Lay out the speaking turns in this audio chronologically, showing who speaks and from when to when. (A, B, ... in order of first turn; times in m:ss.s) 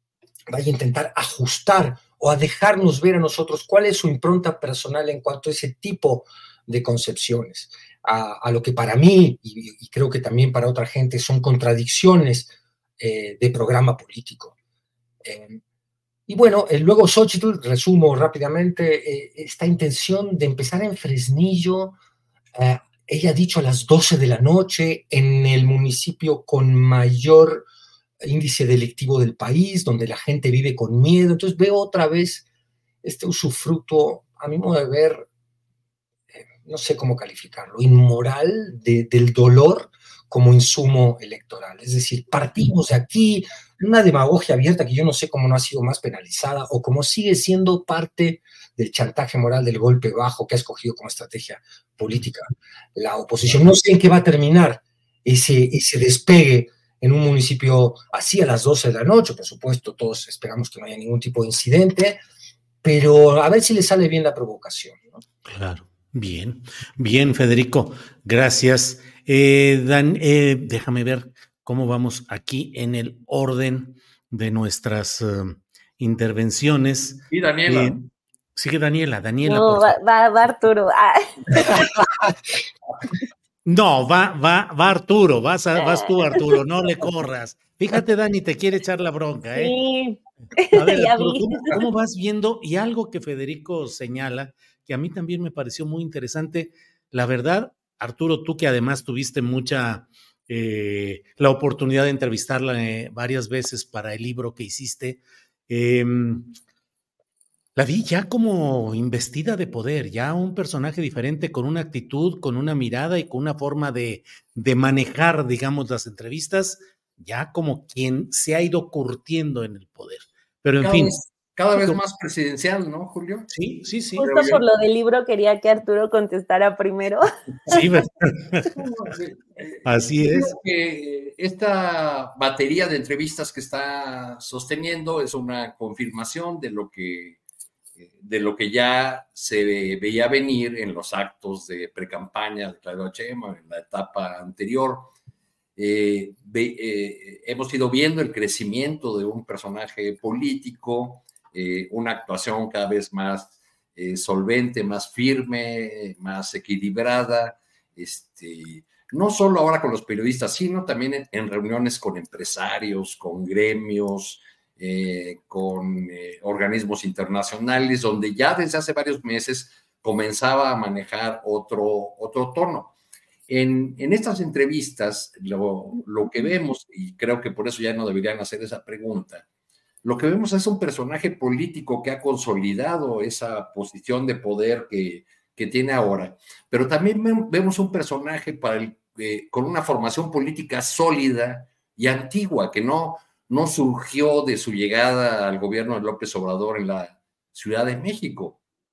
0:00.5-0:14.5 A
0:15.2-0:15.6 A
0:16.3-0:22.0 A
0:22.6-0:27.7 A
0:28.2-0:32.4 A
0:33.0-0:35.3 A
0:36.3-1:02.2 A
1:02.8-1:05.2 A
1:05.5-1:18.0 B
1:17.3-1:18.1 C
1:18.6-1:20.0 B
1:19.4-1:21.8 D
1:23.7-1:29.7 B
1:29.6-1:31.7 D
1:30.7-1:46.6 B
1:47.8-2:01.2 B
2:00.8-2:03.5 C
2:03.5-2:04.2 B
2:04.2-2:07.3 D
2:04.2-2:04.6 C
2:07.7-2:08.7 B
2:08.8-2:17.4 C
2:09.8-2:10.5 B
2:18.0-2:25.1 C
2:25.8-2:52.9 C
2:53.5-2:59.4 C
3:00.0-3:18.6 C